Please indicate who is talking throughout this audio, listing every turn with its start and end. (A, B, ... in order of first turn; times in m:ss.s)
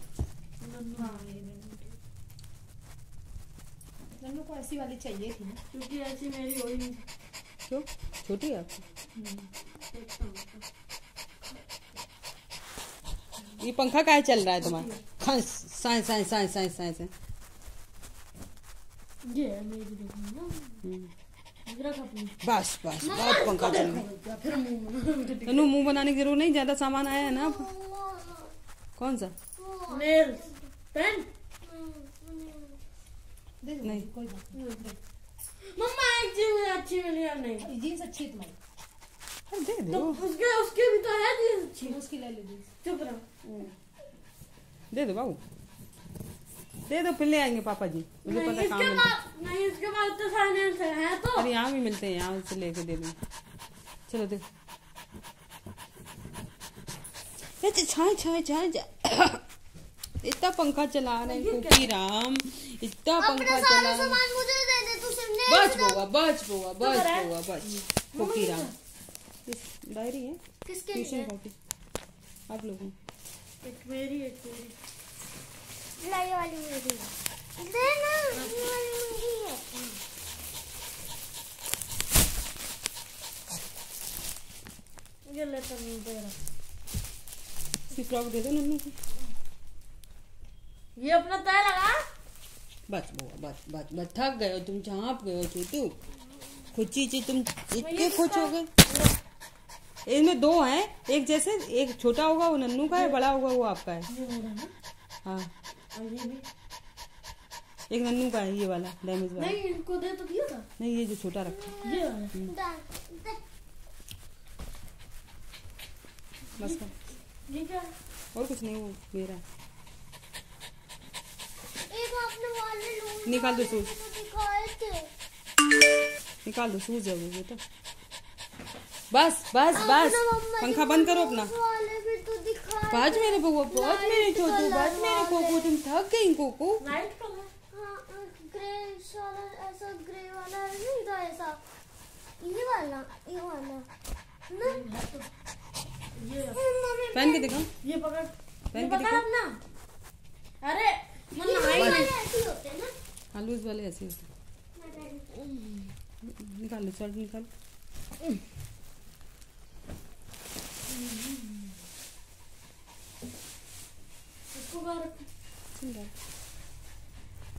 0:00.6-0:01.2 A
0:01.0-0:01.9 B
0:04.2-0:05.6 B
0:05.7-0:07.0 A
0:07.7-0:08.8 C
0:09.2-0:09.5 B
0:09.9-0:10.6 A
0:13.6-0:17.1 C
0:14.6-0:15.0 A
0:19.2-0:20.8 A
0:20.8-0:21.1 C
0:21.6-0:22.4 A
0:22.4-0:24.0 C
0:23.0-0:25.7 A
0:25.5-0:27.7 C
0:27.0-0:28.5 D
0:29.0-0:29.3 C
0:29.5-0:30.7 D
0:29.9-0:31.3 A
0:31.6-0:32.8 D
0:33.6-0:34.5 B
0:34.5-0:35.0 A
0:35.6-0:37.7 A
0:37.6-0:38.6 B
0:39.5-0:40.2 C
0:39.9-0:42.0 A
0:41.8-0:42.7 B
0:42.8-0:43.2 A
0:43.4-0:43.7 C
0:44.9-0:45.4 C
0:46.8-0:49.2 C
0:48.2-0:51.5 A
0:51.3-0:53.2 C
0:54.1-0:54.4 C
0:57.6-0:59.4 C
1:00.2-1:04.2 C
1:01.2-1:01.9 A
1:03.2-1:06.0 D
1:05.4-1:08.7 C
1:06.8-1:07.3 A
1:08.1-1:08.7 A
1:09.4-1:10.4 C
1:10.6-1:11.3 D
1:10.9-1:11.5 C
1:12.5-1:12.9 C
1:13.6-1:14.8 A
1:16.0-1:20.0 D
1:18.3-1:18.7 A
1:25.2-1:26.4 A
1:27.9-1:29.0 C
1:31.0-1:32.0 A
1:32.9-1:36.0 C
1:36.7-1:38.7 C
1:37.8-1:39.2 A
1:40.0-1:44.1 C
1:42.9-1:43.2 A
1:44.1-1:44.7 A
1:45.2-1:45.5 C
1:45.9-1:46.4 A
1:47.9-1:49.6 C
1:49.4-1:50.7 A
1:50.8-1:52.5 C
1:51.5-1:53.4 D
1:51.8-1:52.3 A
1:56.6-1:56.9 C
1:56.6-1:56.9 A
1:57.4-1:57.9 A
1:58.3-1:59.4 C
2:01.9-2:05.1 D
2:03.2-2:03.9 C
2:06.4-2:07.6 C
2:09.1-2:11.5 C
2:09.7-2:15.7 D
2:12.9-2:16.8 C
2:16.8-2:17.5 A
2:17.7-2:21.6 D
2:22.4-2:23.9 D
2:24.5-2:24.8 D
2:24.6-2:25.3 A
2:26.2-2:26.6 A
2:26.5-2:27.6 D
2:27.1-2:27.7 C
2:27.8-2:29.6 A
2:28.7-2:29.2 C
2:30.6-2:32.2 A
2:31.4-2:32.9 D
2:31.7-2:32.0 C
2:33.3-2:34.2 C
2:34.7-2:35.3 D
2:35.3-2:35.9 A
2:36.2-2:37.5 C
2:40.9-2:41.7 A
2:44.5-2:45.3 A
2:45.8-2:46.1 C